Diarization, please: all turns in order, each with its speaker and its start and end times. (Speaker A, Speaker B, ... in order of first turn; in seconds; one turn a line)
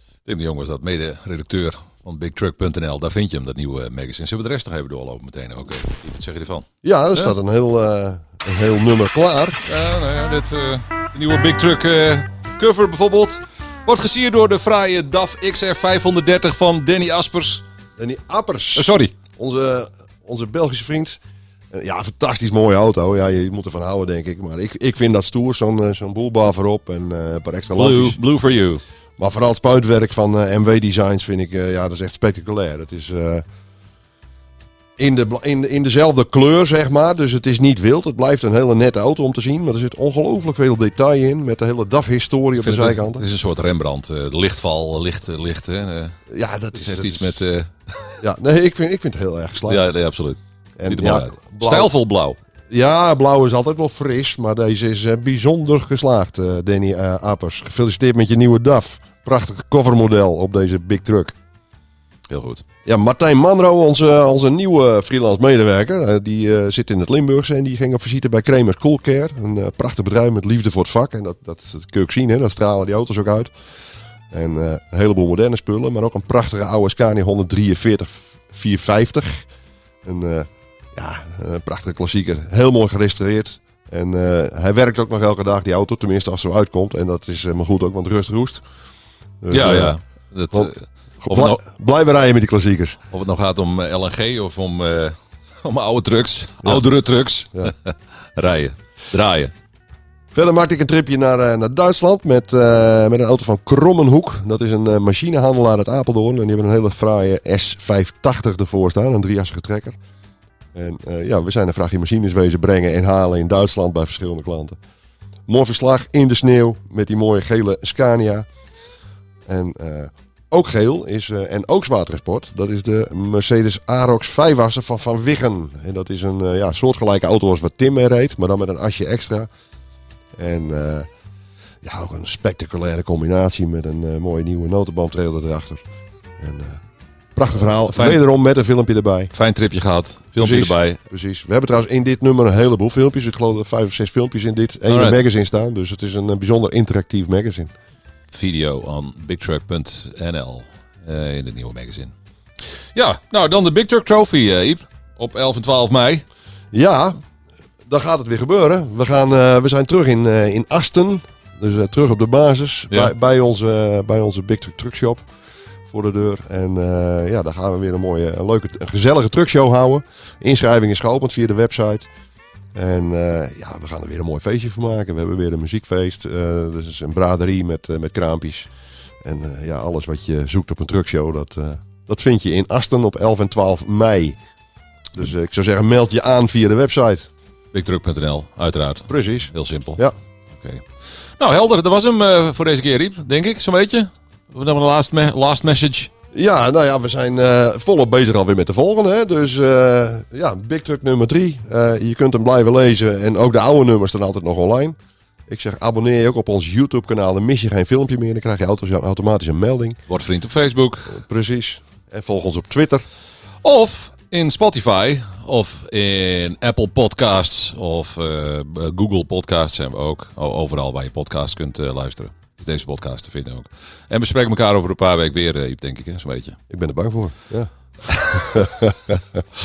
Speaker A: 0.3-7.3
Speaker B: 6.8-9.6
Speaker A: 9.7-17.6
Speaker B: 18.0-21.2
Speaker A: 18.8-19.1
Speaker B: 21.7-28.2
Speaker A: 27.8-28.8
Speaker B: 29.2-33.5
Speaker B: 35.0-43.2
Speaker A: 42.6-46.2
Speaker B: 46.3-47.4
Speaker A: 46.8-48.2
Speaker B: 48.2-49.9
Speaker A: 49.7-52.4
Speaker B: 50.8-51.9
Speaker B: 52.7-61.4
Speaker A: 62.3-62.6
Speaker B: 62.9-73.5
Speaker B: 74.3-79.5
Speaker B: 80.0-88.6
Speaker B: 89.4-90.0
Speaker A: 89.5-91.6
Speaker B: 90.5-93.0
Speaker A: 93.1-99.5
Speaker B: 100.3-110.0
Speaker B: 110.8-114.8
Speaker B: 115.5-118.5
Speaker B: 119.5-129.5
Speaker B: 130.4-131.1
Speaker B: 131.8-135.8
Speaker B: 136.4-136.8
Speaker B: 137.3-139.3
Speaker A: 137.9-138.2
Speaker A: 139.3-141.0
Speaker B: 140.4-147.7
Speaker A: 144.9-145.2
Speaker A: 148.3-152.1
Speaker A: 152.9-156.2
Speaker B: 156.7-157.2
Speaker B: 157.9-165.3
Speaker B: 165.9-172.1
Speaker B: 172.8-178.7
Speaker B: 179.2-184.4
Speaker B: 185.2-187.3
Speaker A: 187.7-190.0
Speaker B: 189.1-190.1
Speaker A: 190.5-196.1
Speaker B: 196.3-205.0
Speaker B: 205.5-210.0
Speaker A: 210.1-211.2
Speaker B: 211.1-213.1
Speaker A: 213.6-226.6
Speaker B: 226.7-229.4
Speaker A: 228.1-228.6